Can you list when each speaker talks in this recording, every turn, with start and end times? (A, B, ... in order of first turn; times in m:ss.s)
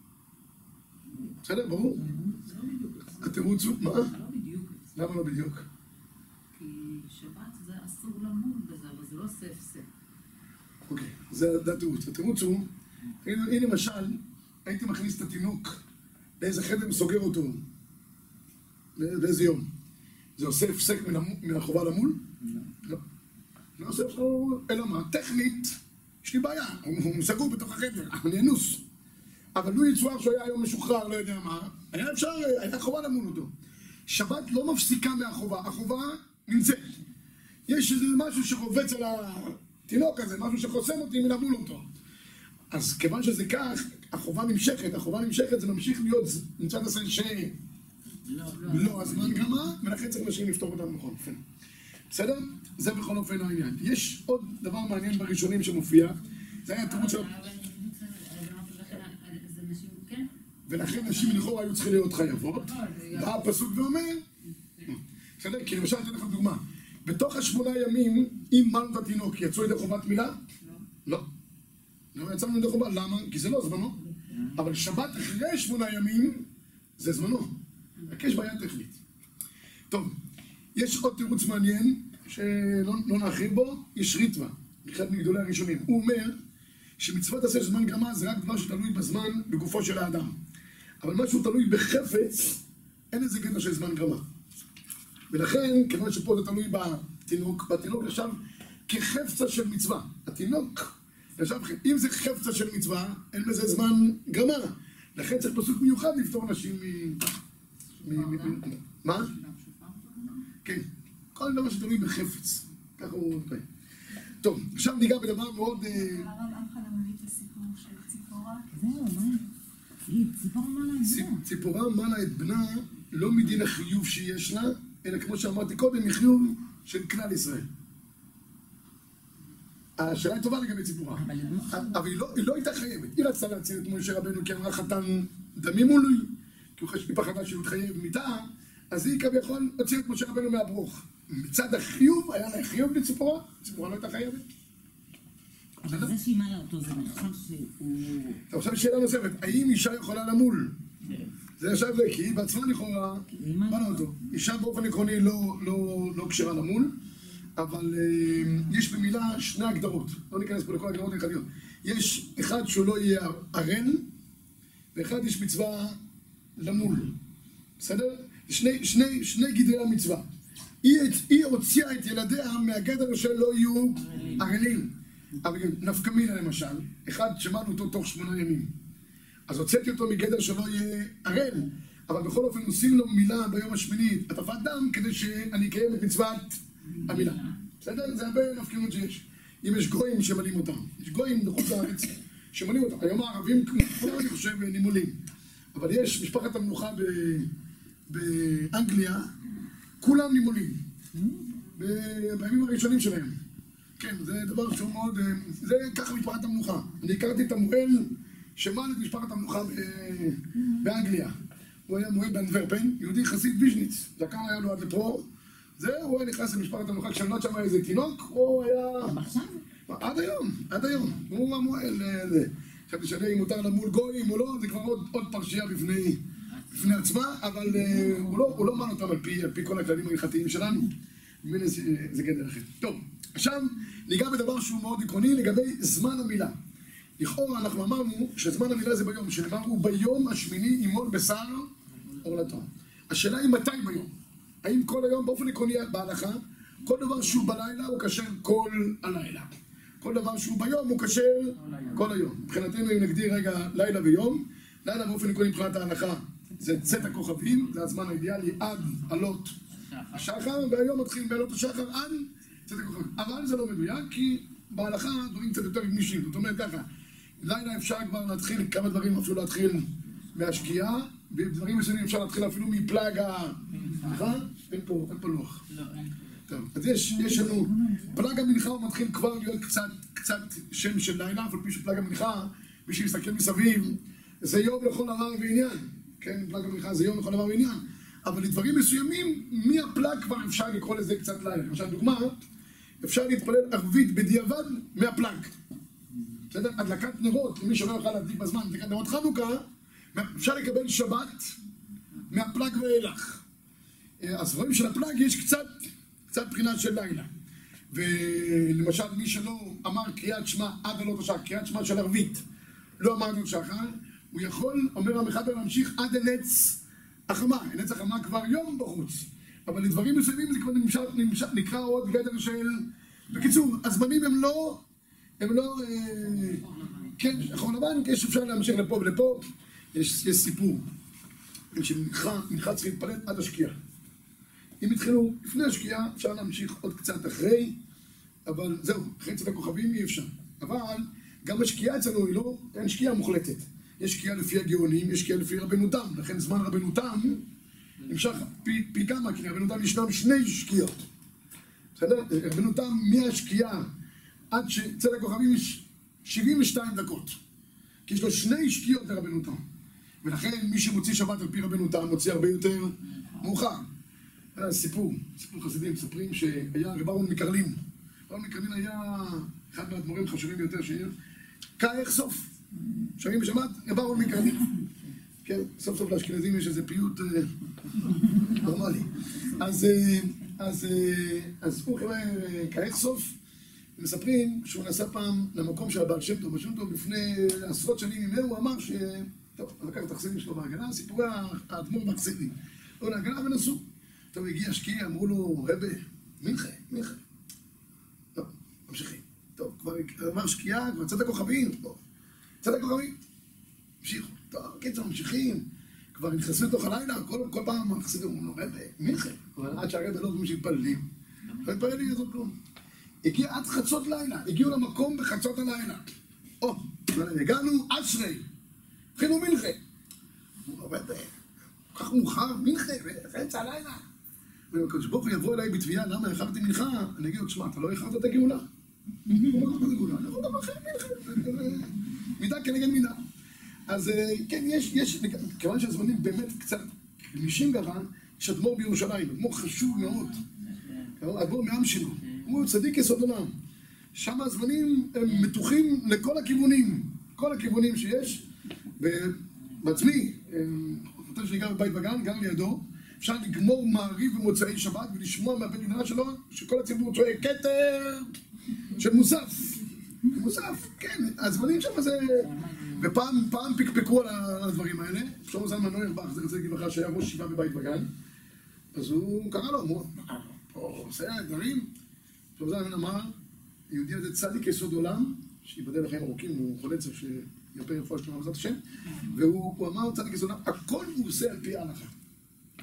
0:01.4-0:02.0 A
0:02.0-0:04.9 B
0:03.2-0:04.1 A
0:05.0-0:05.7 A
0:06.5-0:09.9 B
0:10.9-0:12.7 A
0:13.2-0:15.8 A
0:16.4-0:17.6 A
0:19.0-0:19.7 A
0:20.4-0:22.2 A
0:23.8-0:28.8 A
0:29.5-0:33.5 A
0:34.1-0:36.9 A
0:37.7-0:41.9 A
0:42.7-0:47.6 A
0:48.2-0:49.5 B
0:48.6-0:51.4 A
0:52.1-0:57.3 A
0:56.7-1:00.3 C
1:00.7-1:04.2 A
1:00.9-1:01.4 C
1:02.5-1:03.3 C
1:04.9-1:10.4 A
1:12.1-1:14.0 A
1:14.5-1:16.4 A
1:17.0-1:17.5 A
1:18.1-1:19.0 A
1:20.8-1:26.4 A
1:27.0-1:30.4 A
1:31.0-1:32.6 A
1:33.1-1:34.2 A
1:35.3-1:47.2 A
1:48.0-1:49.3 A
1:48.1-1:48.6 B
1:49.3-1:50.3 B
1:50.6-1:53.6 A
1:54.4-1:56.3 A
1:55.8-1:58.7 C
1:58.7-1:59.5 D
2:00.0-2:01.4 D
2:01.0-2:07.7 A
2:10.0-2:24.5 A
2:11.2-2:12.1 D
2:25.8-2:28.4 D
2:28.5-2:30.7 A
2:31.6-2:37.0 A
2:33.3-2:34.1 D
2:37.6-2:44.1 A
2:44.9-2:46.0 A
2:46.6-2:47.1 A
2:47.8-2:50.3 A
2:50.8-2:58.7 A
2:59.5-3:15.2 A
3:15.7-3:17.5 A
3:18.1-3:19.3 A
3:20.0-3:20.8 A
3:21.1-3:21.5 D
3:21.8-3:23.4 A
3:24.0-3:31.4 A
3:31.9-3:35.3 A
3:35.8-3:39.2 A
3:39.0-3:39.6 D
3:39.9-3:50.9 A
3:51.4-3:56.6 A
3:57.2-4:04.1 A
4:04.6-4:19.6 A
4:20.1-4:26.9 A
4:27.4-4:35.6 A
4:36.5-4:52.4 A
4:37.1-4:38.3 D
4:53.0-4:55.5 A
4:56.5-5:01.6 A
5:02.3-5:03.4 A
5:04.2-5:07.3 A
5:07.9-5:12.4 A
5:13.0-5:24.8 A
5:25.4-5:30.8 A
5:31.7-5:33.8 A
5:34.8-5:37.8 A
5:38.5-5:47.4 A
5:48.1-5:51.0 A
5:52.0-5:53.9 A
5:54.5-5:57.4 A
5:58.1-5:59.6 A
6:00.2-6:03.9 A
6:04.6-6:07.8 A
6:08.3-6:11.1 A
6:11.8-6:12.5 A
6:13.2-6:14.7 A
6:15.4-6:17.5 A
6:18.5-6:23.4 A
6:24.0-6:33.8 A
6:34.3-6:37.2 A
6:38.4-6:42.0 A
6:42.6-6:43.2 A
6:44.0-6:51.1 A
6:51.6-6:52.5 A
6:53.2-6:56.1 A
6:56.6-6:58.4 A
6:59.2-6:59.8 A
7:00.7-7:01.3 A
7:01.9-7:04.0 A
7:04.7-7:08.7 A
7:09.3-7:09.7 D
7:09.3-7:13.2 A
7:13.9-7:20.4 A
7:21.2-7:23.5 A
7:24.1-7:28.4 A
7:29.0-7:38.3 A
7:39.0-7:48.1 A
7:48.9-7:51.9 A
7:52.6-7:53.3 A
7:53.9-8:02.1 A